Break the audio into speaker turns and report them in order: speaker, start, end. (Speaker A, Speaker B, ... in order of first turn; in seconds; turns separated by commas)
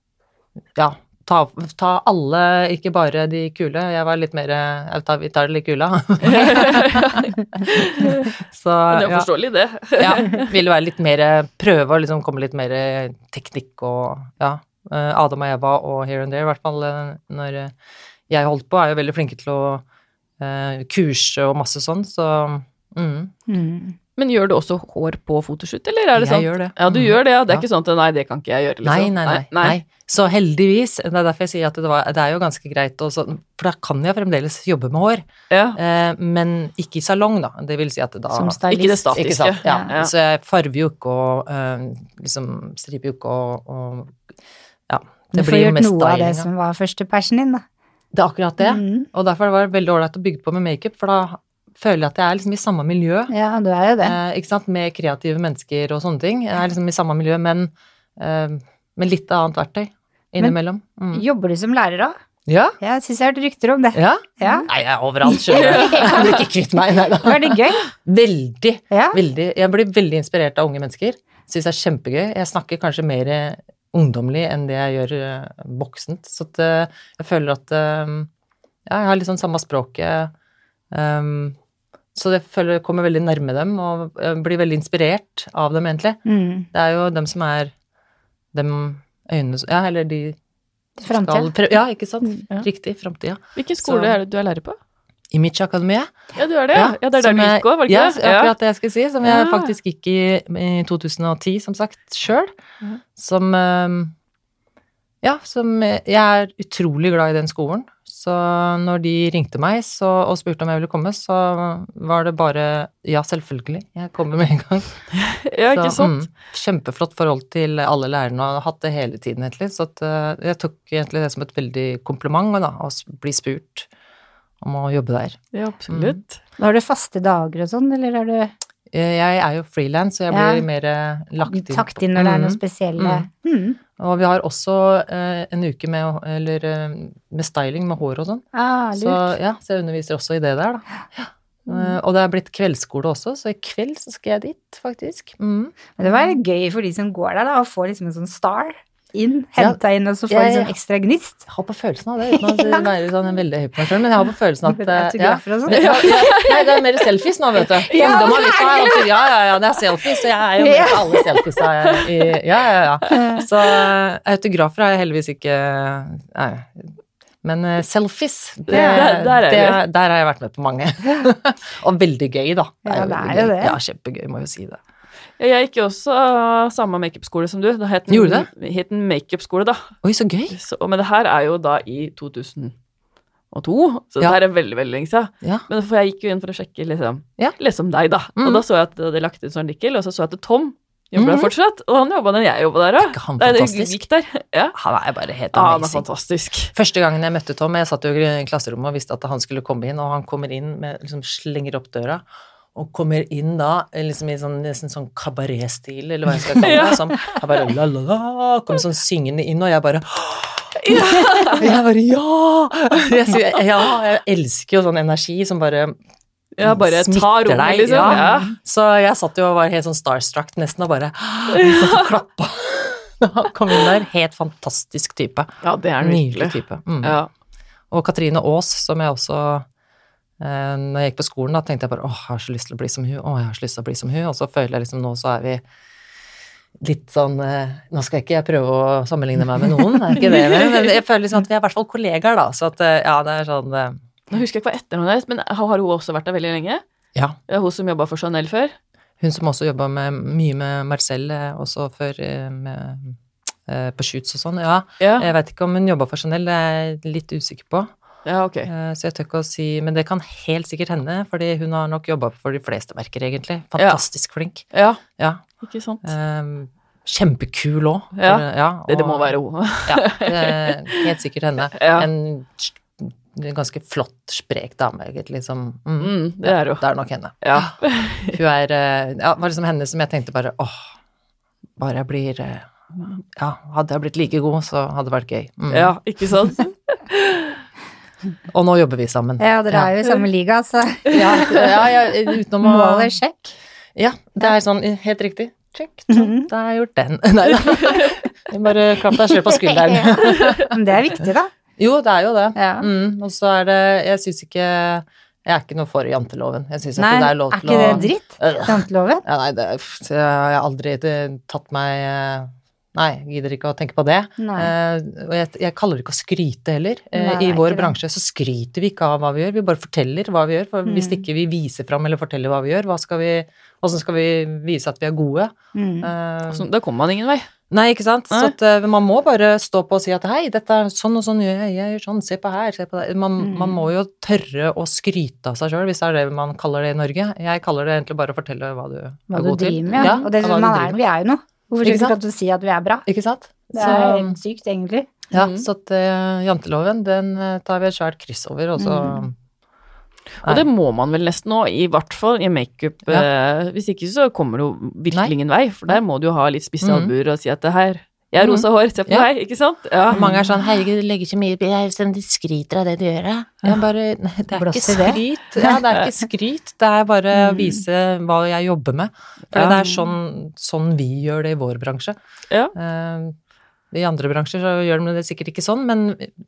Speaker A: 0.7-7.3, Speaker B: 6.2-8.3, Speaker A: 8.4-9.3, Speaker B: 8.9-10.5, Speaker A: 9.9-17.7, Speaker A: 18.3-19.9, Speaker A: 20.4-23.3, Speaker C: 23.5-24.0, Speaker B: 24.2-29.8, Speaker A: 26.2-27.7, Speaker A: 28.8-35.2, Speaker B: 35.5-35.8, Speaker A: 35.8-38.6, Speaker C: 38.3-39.9, Speaker B: 38.7-40.1, Speaker A: 39.1-44.2, Speaker A: 44.9-46.5, Speaker C: 45.4-47.6, Speaker A: 48.1-53.3, Speaker C: 48.6-49.1, Speaker C: 53.3-54.2, Speaker A: 54.0-61.2, Speaker C: 61.1-62.2, Speaker A: 62.5-62.8, Speaker C: 62.8-64.7, Speaker A: 63.9-78.3, Speaker C: 65.2-66.4, Speaker B: 65.5-66.2, Speaker C: 67.2-67.9, Speaker C: 68.9-69.2, Speaker A: 78.9-80.3, Speaker A: 80.9-81.6, Speaker A: 82.2-86.2, Speaker C: 86.3-86.7, Speaker A: 86.7-87.7, Speaker A: 88.5-90.4, Speaker C: 91.0-91.5, Speaker A: 91.1-94.2, Speaker B: 93.6-94.8, Speaker A: 95.3-96.1, Speaker B: 96.3-98.5, Speaker A: 96.7-102.5, Speaker B: 99.2-99.7, Speaker A: 103.2-104.1, Speaker A: 105.2-115.0, Speaker B: 115.2-116.2, Speaker A: 115.7-123.9, Speaker A: 124.6-126.2, Speaker B: 125.5-126.4, Speaker C: 126.6-128.5, Speaker A: 128.9-133.3, Speaker C: 130.3-130.6, Speaker C: 131.5-133.8, Speaker A: 134.0-138.4, Speaker C: 138.5-139.4, Speaker A: 139.0-145.8, Speaker C: 141.7-141.9, Speaker C: 146.0-151.5, Speaker A: 149.6-150.7, Speaker A: 151.5-174.8, Speaker C: 152.3-152.9, Speaker C: 154.7-156.2, Speaker B: 155.7-156.8, Speaker B: 157.6-159.2, Speaker C: 157.9-158.9, Speaker C: 160.6-161.3, Speaker B: 168.7-169.8, Speaker C: 168.7-169.1, Speaker C: 172.9-173.8, Speaker B: 175.4-179.9, Speaker A: 178.1-178.5, Speaker A: 180.0-180.6, Speaker B: 180.5-182.8, Speaker B: 183.5-194.8, Speaker A: 188.4-188.6, Speaker A: 191.2-191.5, Speaker A: 193.0-194.0, Speaker A: 194.8-196.1, Speaker B: 195.5-196.7, Speaker A: 196.7-202.2, Speaker A: 202.8-215.9, Speaker B: 206.6-207.4, Speaker B: 210.8-211.7, Speaker B: 216.6-218.5, Speaker A: 216.6-227.2, Speaker B: 221.5-222.1, Speaker B: 225.6-227.3, Speaker A: 227.9-229.7, Speaker A: 230.4-235.6, Speaker A: 236.8-244.0, Speaker B: 240.2-240.9, Speaker B: 244.3-246.8, Speaker B: 247.5-248.8, Speaker A: 249.2-257.9, Speaker B: 255.0-255.3, Speaker B: 258.2-258.7, Speaker A: 258.7-264.6, Speaker B: 263.8-264.0, Speaker B: 264.7-265.0, Speaker A: 265.2-265.4, Speaker B: 265.6-266.1, Speaker A: 266.0-269.3, Speaker B: 268.1-271.1, Speaker A: 269.9-280.9, Speaker B: 271.7-272.1, Speaker B: 276.0-276.8, Speaker B: 277.4-278.4, Speaker A: 281.8-285.9, Speaker B: 285.7-287.6, Speaker A: 288.5-290.0, Speaker C: 289.4-291.6, Speaker A: 291.1-293.1, Speaker C: 292.6-293.6, Speaker A: 293.9-300.7, Speaker C: 296.1-296.5, Speaker C: 299.4-301.5, Speaker A: 301.8-326.7, Speaker C: 302.6-302.9, Speaker C: 307.0-309.2, Speaker C: 314.4-314.7, Speaker C: 317.1-317.9, Speaker C: 320.9-321.2, Speaker C: 325.8-326.1, Speaker B: 326.5-327.5, Speaker A: 327.7-341.0, Speaker C: 333.4-333.8, Speaker C: 339.3-343.1, Speaker B: 339.9-340.3, Speaker A: 341.8-342.2, Speaker A: 343.1-344.4, Speaker C: 343.7-345.2, Speaker B: 345.3-345.7, Speaker A: 345.3-349.4, Speaker C: 348.8-349.2, Speaker B: 350.4-360.3, Speaker A: 356.8-357.1, Speaker A: 358.4-359.3, Speaker A: 360.1-372.2, Speaker C: 364.6-365.8, Speaker C: 367.4-367.8, Speaker C: 369.7-370.0, Speaker A: 372.8-373.4, Speaker A: 373.9-376.3